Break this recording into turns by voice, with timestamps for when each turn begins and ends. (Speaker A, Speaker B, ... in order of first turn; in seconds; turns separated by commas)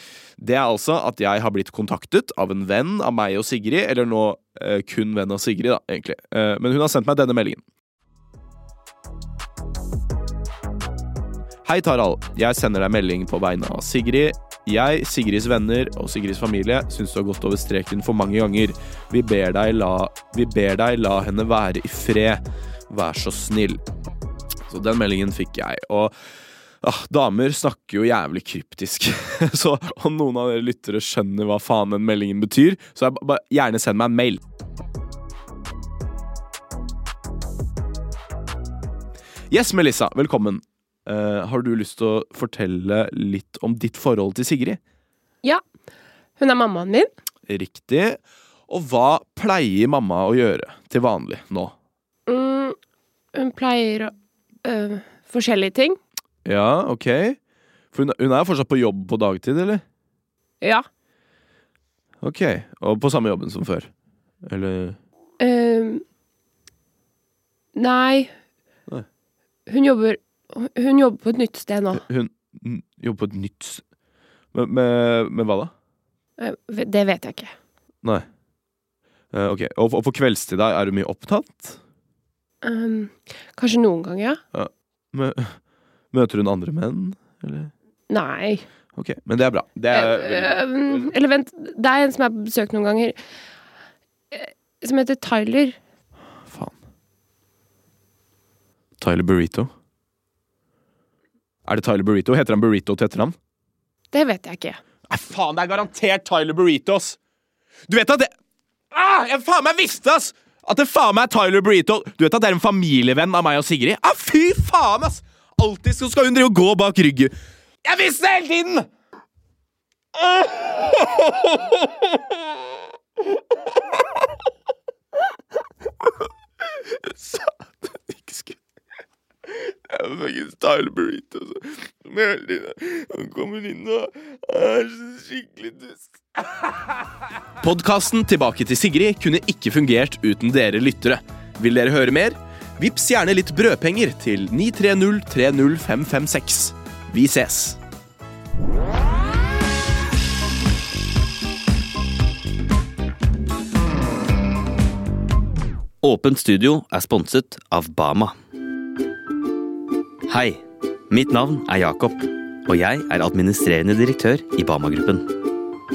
Speaker A: 0.4-7.6, Speaker A: 11.7-23.8, Speaker A: 24.7-26.1, Speaker A: 26.8-34.4, Speaker A: 39.5-44.8, Speaker B: 46.4-47.1, Speaker A: 47.5-51.7, Speaker B: 52.3-52.8, Speaker B: 53.3-54.1, Speaker B: 54.6-56.0, Speaker A: 56.5-57.4, Speaker A: 57.9-59.8, Speaker A: 62.2-63.9, Speaker A: 64.4-65.0, Speaker B: 65.4-66.0, Speaker B: 67.8-68.3, Speaker B: 69.7-72.0, Speaker A: 71.9-73.8, Speaker A: 74.5-75.7, Speaker B: 76.4-77.5, Speaker A: 79.3-81.8, Speaker B: 82.6-84.4, Speaker A: 84.5-87.7, Speaker B: 88.1-88.7, Speaker A: 89.0-91.1, Speaker B: 89.9-93.2, Speaker B: 94.3-95.8, Speaker A: 96.5-96.8, Speaker A: 99.0-99.7, Speaker A: 101.7-103.3, Speaker B: 104.1-104.8, Speaker A: 105.1-107.2, Speaker A: 107.9-108.3, Speaker A: 108.9-117.3, Speaker A: 117.8-118.9, Speaker A: 120.2-121.9, Speaker A: 127.1-128.6, Speaker A: 129.5-136.0, Speaker A: 137.6-147.8, Speaker C: 156.0-158.3, Speaker C: 160.3-160.6, Speaker C: 161.1-165.3